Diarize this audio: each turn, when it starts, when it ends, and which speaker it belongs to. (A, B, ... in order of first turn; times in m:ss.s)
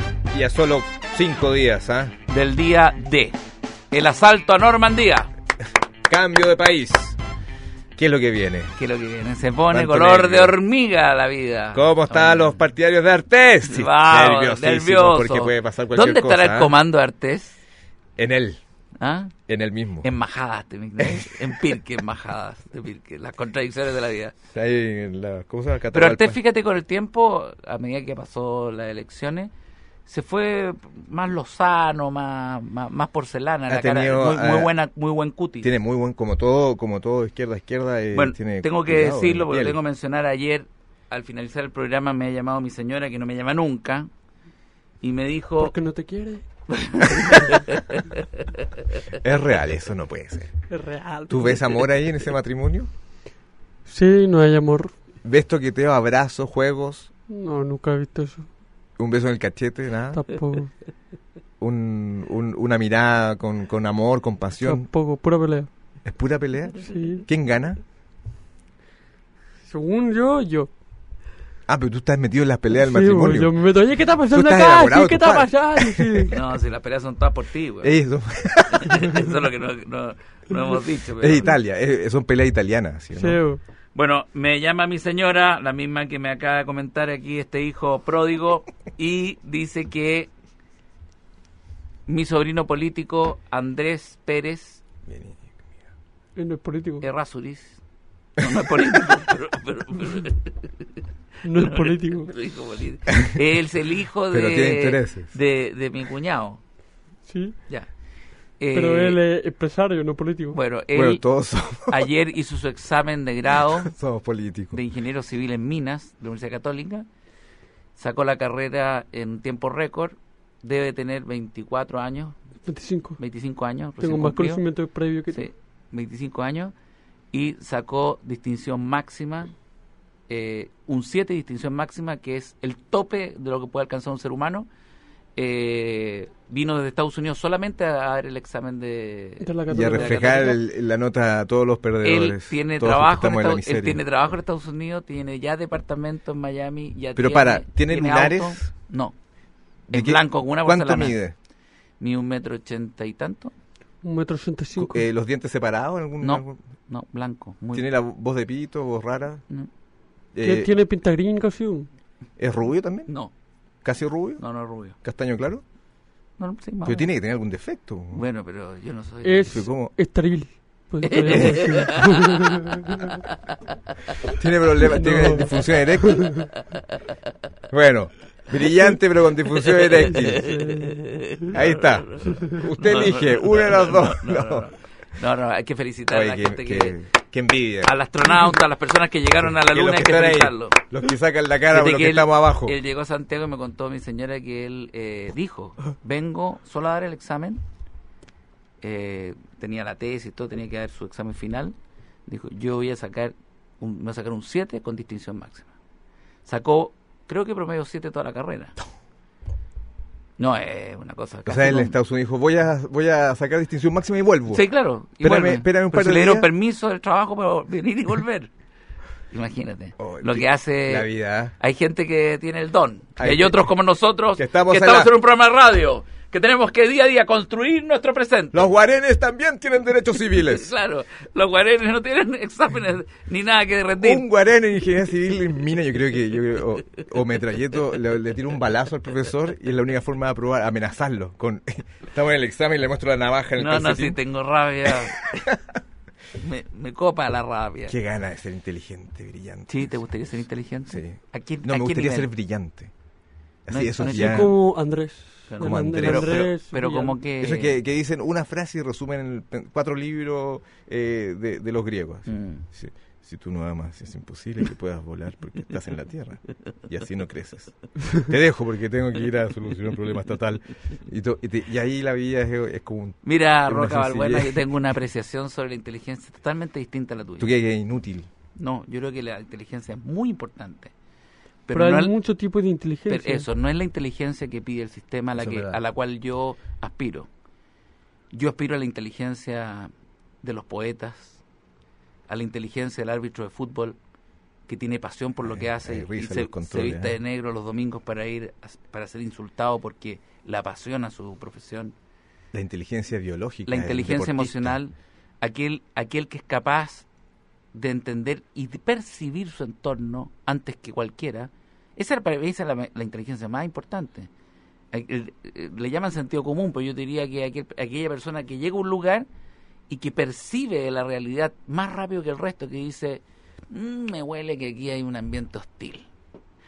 0:00.3-0:02.1 A
0:02.3-0:03.4 B
0:03.9-0:05.3 B
0:06.1-0:07.2 A
0:08.0-0:08.8 A
0:08.8-0:12.6 B
0:09.7-0:10.6 A
0:11.7-0:16.7 A
0:13.7-0:17.6 B
0:18.2-0:18.6 A
0:19.0-0:19.3 B
0:19.5-0:20.1 A
0:20.0-0:24.3 B
0:21.0-0:21.6 A
0:24.5-0:26.4 A
0:25.9-0:29.5 B
0:30.0-0:35.7 B
0:33.7-0:34.7 A
0:35.6-0:39.8 A
0:38.1-0:44.1 B
0:45.0-0:45.7 B
0:45.6-0:46.4 C
0:46.7-0:49.0 B
0:47.3-0:47.6 C
0:49.1-0:50.5 A
0:50.7-0:51.6 C
0:51.3-0:52.9 A
0:53.9-0:54.9 C
0:55.2-0:57.1 A
0:57.3-0:58.5 C
0:59.0-1:00.2 A
1:00.1-1:00.7 C
1:01.6-1:04.9 A
1:04.6-1:05.7 C
1:06.0-1:07.8 A
1:06.9-1:07.2 C
1:09.7-1:10.7 C
1:11.7-1:13.6 A
1:12.7-1:16.3 C
1:14.3-1:16.3 A
1:16.3-1:18.0 B
1:17.8-1:19.3 A
1:18.7-1:21.5 B
1:21.2-1:23.4 A
1:23.1-1:23.6 C
1:24.0-1:30.3 B
1:32.1-1:34.8 B
1:35.1-1:35.6 A
1:36.4-1:37.0 C
1:37.0-1:37.8 B
1:38.4-1:41.0 B
1:38.4-1:39.2 A
1:41.4-1:42.3 C
1:41.5-1:46.6 B
1:43.1-1:43.4 A
1:44.3-1:45.3 A
1:47.3-1:47.6 C
1:48.6-1:49.2 B
1:48.7-1:50.6 C
1:50.5-1:51.2 B
1:50.9-1:52.1 A
1:51.9-1:53.9 B
1:53.7-1:54.8 A
1:54.7-1:57.1 B
1:58.0-2:02.4 B
2:02.7-2:03.2 C
2:03.2-2:04.6 B
2:04.0-2:05.5 C
2:05.3-2:06.7 B
2:07.3-2:09.5 B
2:10.3-2:14.7 B
2:15.4-2:20.6 B
2:19.4-2:20.6 C
2:19.7-2:24.0 A
2:22.0-2:29.2 B
2:27.2-2:28.7 A
2:29.9-2:31.2 B
2:29.9-2:31.3 A
2:32.0-2:33.5 B
2:34.0-2:35.0 C
2:34.8-2:36.6 A
2:36.2-2:37.9 B
2:37.7-2:39.4 A
2:40.3-2:40.7 A
2:40.4-2:41.9 C
2:42.4-2:43.1 A
2:43.1-2:43.3 B
2:43.8-2:44.4 A
2:44.4-2:45.0 B
2:45.0-2:45.6 A
2:46.4-2:47.1 B
2:46.8-2:48.2 A
2:48.1-2:49.6 B
2:49.2-2:53.2 C
2:49.5-2:49.9 A
2:51.0-2:53.6 B
2:51.2-2:51.6 A
2:54.3-2:56.4 A
2:54.8-2:56.5 C
2:57.7-3:00.5 A
2:59.5-3:07.0 B
3:00.2-3:01.0 C
3:01.5-3:04.7 A
3:06.1-3:07.9 A
3:07.8-3:10.8 B
3:09.4-3:12.8 A
3:11.7-3:17.6 B
3:18.8-3:21.8 B
3:22.3-3:25.7 B
3:26.4-3:28.8 B
3:30.4-3:31.9 B
3:31.5-3:34.6 A
3:34.5-3:38.5 B
3:35.2-3:36.5 A
3:39.3-3:41.1 B
3:40.0-3:41.5 A
3:41.6-3:48.7 B
3:43.2-3:43.7 A
3:44.4-3:45.1 A
3:48.5-3:50.7 A
3:50.4-3:54.2 B
3:54.0-4:04.2 A
4:03.6-4:05.5 B
4:04.9-4:05.6 A
4:06.4-4:08.0 B
4:07.9-4:10.0 A
4:09.7-4:12.3 B
4:10.9-4:12.9 A
4:13.7-4:14.5 A
4:13.7-4:14.5 B
4:14.0-4:17.2 C
4:15.5-4:17.8 B
4:15.6-4:16.5 A
4:17.4-4:34.6 A
4:22.2-4:22.6 B
4:33.2-4:37.5 B
4:37.4-4:38.3 A
4:38.6-4:40.9 B
4:41.7-4:42.1 B
4:41.7-4:43.5 C
4:43.1-4:47.3 B
4:45.4-4:45.8 A
4:48.3-4:49.9 B
4:50.4-4:51.4 B
4:52.3-4:54.0 B
4:54.7-5:01.9 B
4:55.4-4:57.1 A
5:02.5-5:04.8 A
5:03.7-5:07.1 B
5:07.7-5:14.3 B
5:14.9-5:19.3 B
5:19.9-5:26.1 B